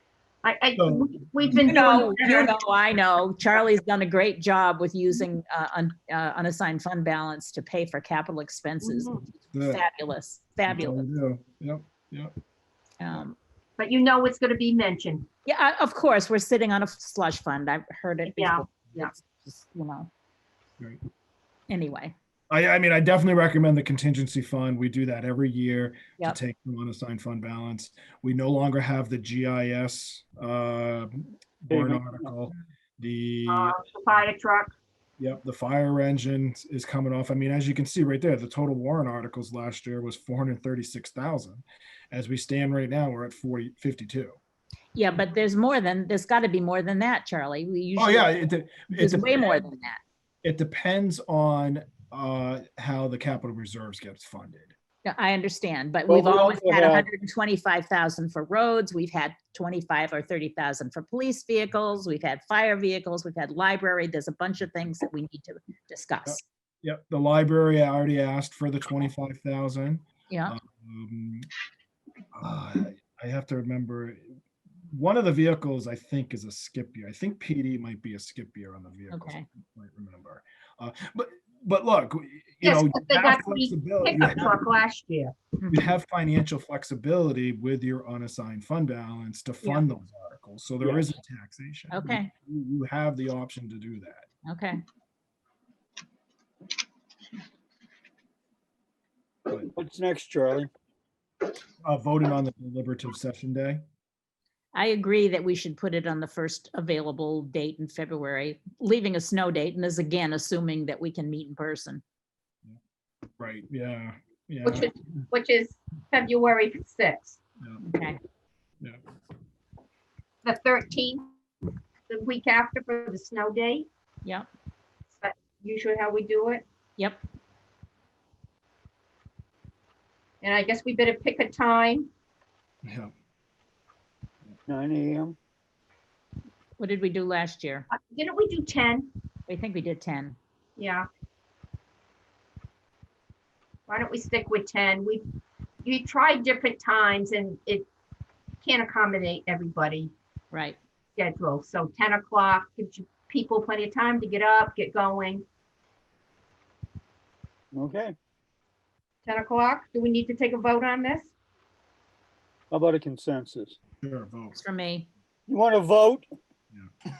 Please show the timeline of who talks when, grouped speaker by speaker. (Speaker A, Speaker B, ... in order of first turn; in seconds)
Speaker A: 0.4-2.6, 8.8-9.2, 13.8-15.3, 18.3-19.1, 33.5-34.7, 82.6-85.3, 114.6-117.4, 120.4-121.3, 122.1-123.8, 125.2-126.6, 130.4-132.1, 137.9-139.1, 140.8-141.1, 143.9-145.2, 145.8-147.8, 148.6-150.1, 151.2-155.4, 159.2-161.3
Speaker B: 0.8-1.8, 9.5-9.8, 10.7-12.3, 22.5-33.8, 35.2-44.4, 48.0-49.5, 50.4-54.7, 66.2-71.5, 72.3-74.4, 74.9-84.5, 85.7-94.2, 101.8-103.8, 113.4-114.9, 132.8-133.1, 164.0-164.6
Speaker C: 1.6-11.0, 13.0-13.3, 15.4-20.1, 21.7-22.1, 44.9-50.0, 55.0-66.4, 70.3-70.5, 79.1-79.4, 91.9-92.3, 94.4-94.8, 104.7-112.0, 117.8-118.2, 136.8-137.9, 139.5-140.3, 150.5-150.8, 164.5-165.1
Speaker D: 31.7-32.3, 56.1-57.0, 99.7-100.7, 134.7-135.4, 157.7-158.1, 162.7-163.8, 165.5-166.2